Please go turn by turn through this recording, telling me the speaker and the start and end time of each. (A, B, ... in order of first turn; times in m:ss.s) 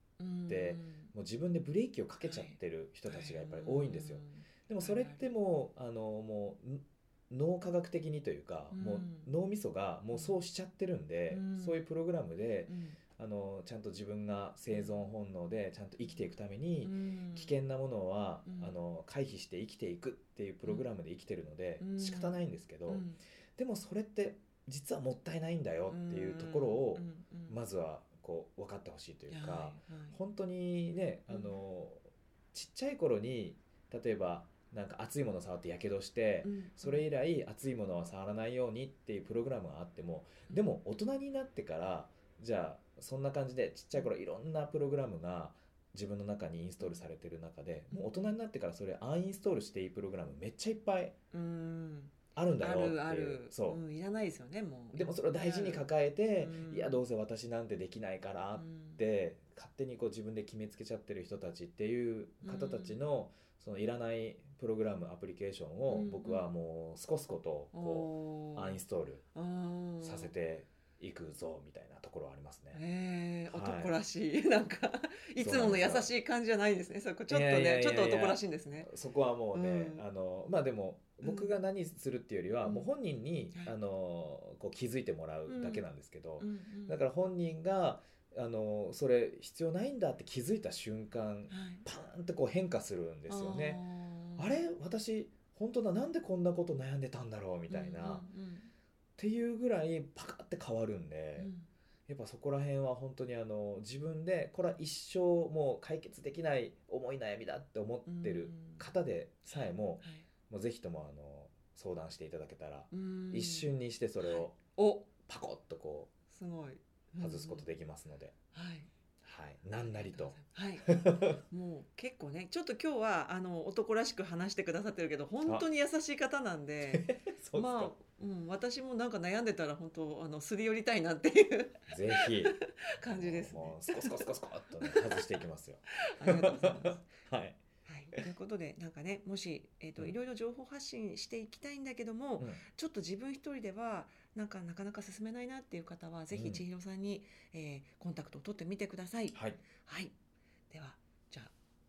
0:00.2-0:01.1 A
0:00.5-0:51.2 B
0:02.2-0:05.3 A
0:08.7-0:09.3 A
0:10.1-0:10.4 A
0:11.3-0:11.9 A
0:12.7-0:13.0 A
0:14.7-0:15.0 A
0:16.8-0:17.6 A
0:18.4-0:18.8 A
0:21.8-0:23.2 A
0:25.9-0:27.6 A
0:29.3-0:30.2 A
0:31.3-0:31.6 A
0:36.4-0:37.1 A
0:47.9-0:48.3 A
0:51.3-0:57.0 A
0:52.3-0:53.8 B
0:54.9-1:09.2 B
0:58.6-0:59.0 A
1:02.4-1:03.0 A
1:05.9-1:06.5 A
1:07.7-1:08.8 A
1:09.3-1:10.3 A
1:10.0-1:12.8 B
1:12.7-1:18.9 A
1:13.5-1:14.0 B
1:15.4-1:16.1 B
1:17.3-1:38.3 B
1:19.5-1:20.0 A
1:21.2-1:21.5 A
1:22.6-1:22.9 A
1:25.5-1:25.9 A
1:26.4-1:27.0 A
1:31.5-1:31.8 A
1:33.3-1:34.6 A
1:37.7-1:38.7 A
1:39.2-1:41.5 B
1:41.4-1:41.7 A
1:42.1-1:54.6 B
1:48.0-1:48.9 A
1:49.4-1:50.3 A
1:52.9-1:55.1 A
1:55.2-1:56.1 B
1:56.3-1:57.7 A
1:57.2-1:58.3 B
1:58.5-1:58.9 A
1:59.2-2:01.4 B
1:59.9-2:14.3 A
2:06.8-2:07.9 B
2:11.9-2:17.6 B
2:14.8-2:15.3 A
2:16.0-2:17.1 A
2:17.8-2:30.1 A
2:22.4-2:22.6 B
2:26.3-2:26.6 B
2:29.3-2:29.6 B
2:30.7-2:31.5 A